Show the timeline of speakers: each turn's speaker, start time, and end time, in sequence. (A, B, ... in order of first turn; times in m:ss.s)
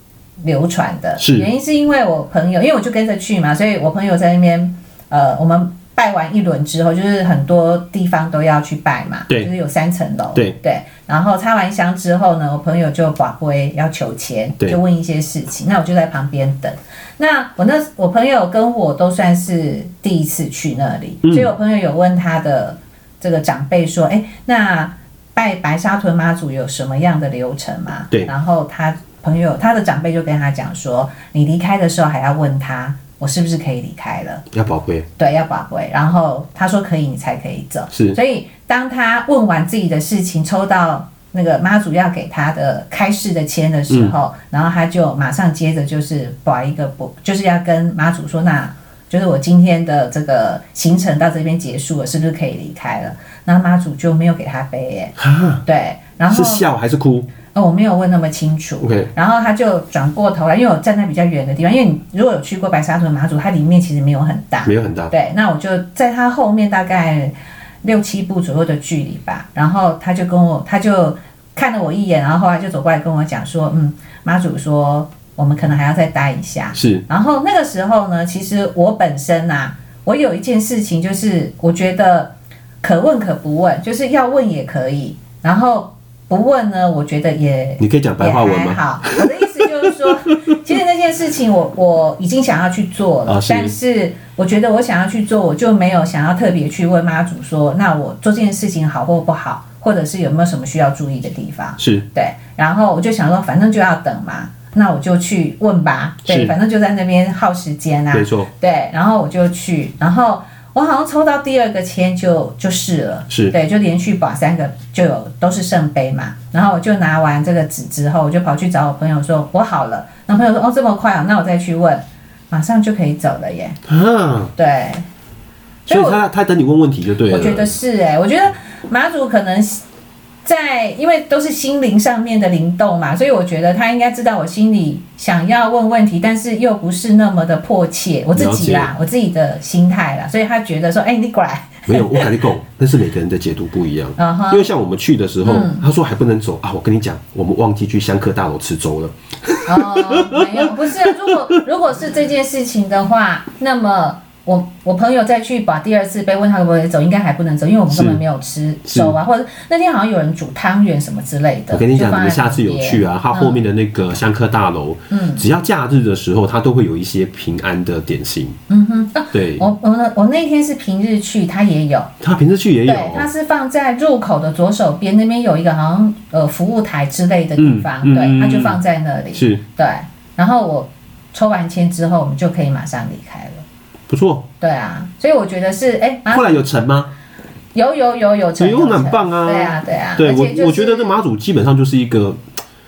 0:00.4-0:34.4 A
0:01.2-0:01.5 B
0:21.2-0:21.5 B
0:34.5-0:35.1 B
0:35.2-0:56.7 A
0:37.9-0:38.2 B
0:43.9-0:44.1 B
0:55.2-0:55.6 B
0:56.3-0:57.3 B
0:57.5-2:03.8 A
0:58.8-0:59.1 B
1:04.6-1:05.1 B
1:16.7-1:17.0 B
1:27.8-1:30.5 B
1:33.3-1:33.7 B
1:41.8-1:42.0 B
1:46.2-1:46.5 B
1:48.1-1:48.5 B
1:53.3-1:53.5 B
2:03.9-2:04.5 B
2:04.6-2:05.0 A
2:05.9-2:06.2 A
2:05.9-2:07.8 B
2:07.3-2:09.8 A
2:10.4-2:22.4 A
2:18.3-2:18.9 B
2:21.9-2:31.6 B
2:24.2-2:24.7 A
2:25.4-2:25.8 A
2:29.6-2:43.6 A
2:37.9-2:38.2 B
2:38.8-2:39.2 B
2:41.7-2:48.6 B
2:45.1-2:45.4 A
2:48.7-2:52.1 A
2:49.3-2:49.6 B
2:52.2-2:53.3 B
2:52.8-3:03.6 A
2:57.6-2:58.8 B
2:59.3-2:59.6 B
3:04.1-3:04.5 B
3:04.6-3:06.6 A
3:06.3-3:07.1 B
3:07.7-3:11.2 A
3:08.6-3:12.4 B